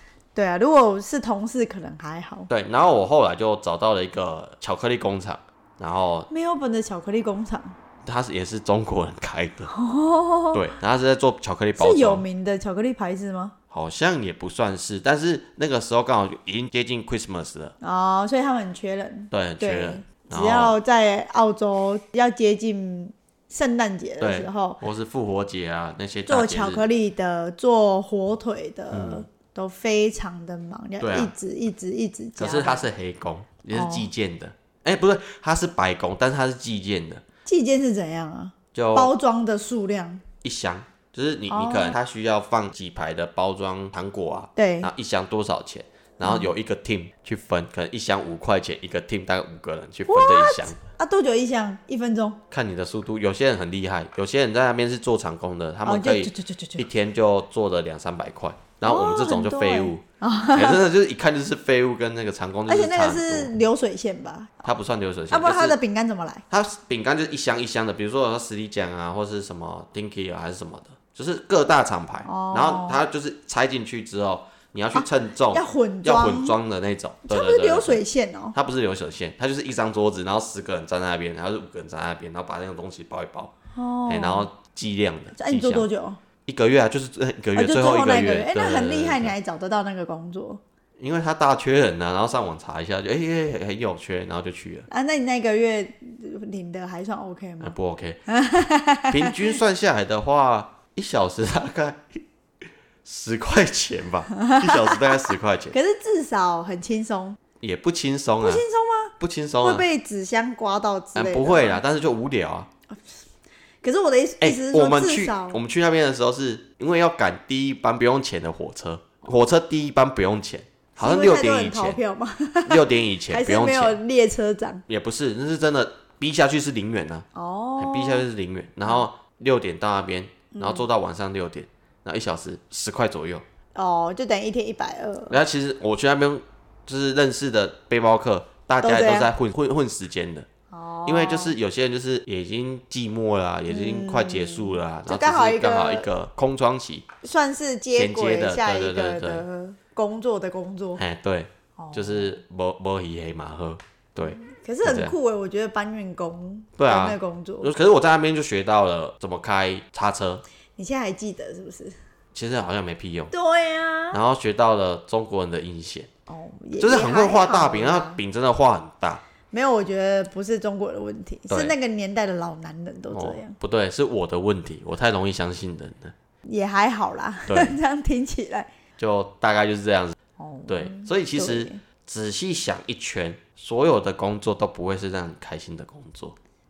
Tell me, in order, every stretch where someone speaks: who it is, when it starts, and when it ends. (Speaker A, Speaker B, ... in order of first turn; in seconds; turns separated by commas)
Speaker A: 0.3-2.5, Speaker B: 2.5-6.3, Speaker A: 6.3-7.7, Speaker B: 8.0-9.7, Speaker A: 9.7-10.8, Speaker B: 10.5-12.2, Speaker A: 11.8-13.5, Speaker B: 13.7-17.7, Speaker A: 17.8-24.8, Speaker B: 19.3-20.8, Speaker B: 24.2-26.8, Speaker A: 26.3-32.9, Speaker B: 28.9-29.2, Speaker B: 31.0-31.3, Speaker B: 32.4-37.2, Speaker A: 33.7-34.1, Speaker A: 37.4-40.2, Speaker B: 38.7-39.1, Speaker B: 40.4-50.8, Speaker A: 41.5-42.0, Speaker A: 44.5-44.9, Speaker A: 46.2-46.5, Speaker A: 50.1-52.4, Speaker B: 52.5-63.5, Speaker A: 55.8-56.9, Speaker A: 58.8-60.8, Speaker A: 62.7-64.6, Speaker B: 64.6-65.8, Speaker A: 65.3-66.4, Speaker B: 66.5-78.0, Speaker A: 72.2-73.0, Speaker A: 74.9-76.6, Speaker A: 77.2-78.5, Speaker B: 78.5-83.5, Speaker A: 83.7-84.5, Speaker B: 84.1-85.9, Speaker A: 85.3-86.2, Speaker B: 86.5-89.3, Speaker A: 87.5-90.6, Speaker B: 91.0-94.9, Speaker A: 94.9-97.8, Speaker B: 97.6-98.2, Speaker A: 98.3-99.5, Speaker B: 99.1-102.2, Speaker B: 103.0-105.8, Speaker A: 104.3-107.4, Speaker B: 107.6-108.6, Speaker A: 108.4-111.8, Speaker B: 109.2-109.8, Speaker B: 111.1-112.7, Speaker A: 112.9-113.2, Speaker A: 113.8-115.6, Speaker B: 114.4-122.0, Speaker A: 121.0-124.8, Speaker B: 122.6-124.0, Speaker B: 124.9-127.3, Speaker A: 127.3-128.2, Speaker B: 127.8-133.4, Speaker A: 130.5-130.8, Speaker A: 133.7-135.4, Speaker B: 135.3-140.5, Speaker A: 138.8-139.3, Speaker A: 140.7-141.5, Speaker B: 141.1-147.1, Speaker A: 143.7-146.1, Speaker A: 147.2-151.0, Speaker B: 147.9-149.4, Speaker B: 151.0-155.2, Speaker A: 151.8-152.3, Speaker A: 154.2-157.7, Speaker B: 156.8-160.4, Speaker A: 160.8-161.9, Speaker B: 162.3-163.3, Speaker A: 163.3-164.2, Speaker B: 164.1-166.1, Speaker A: 166.3-168.2, Speaker B: 166.8-169.2, Speaker A: 169.5-173.6, Speaker B: 171.5-171.7, Speaker B: 173.1-176.1, Speaker A: 176.4-178.7, Speaker B: 177.5-177.7, Speaker B: 179.0-180.2, Speaker A: 180.4-181.8, Speaker B: 180.7-186.4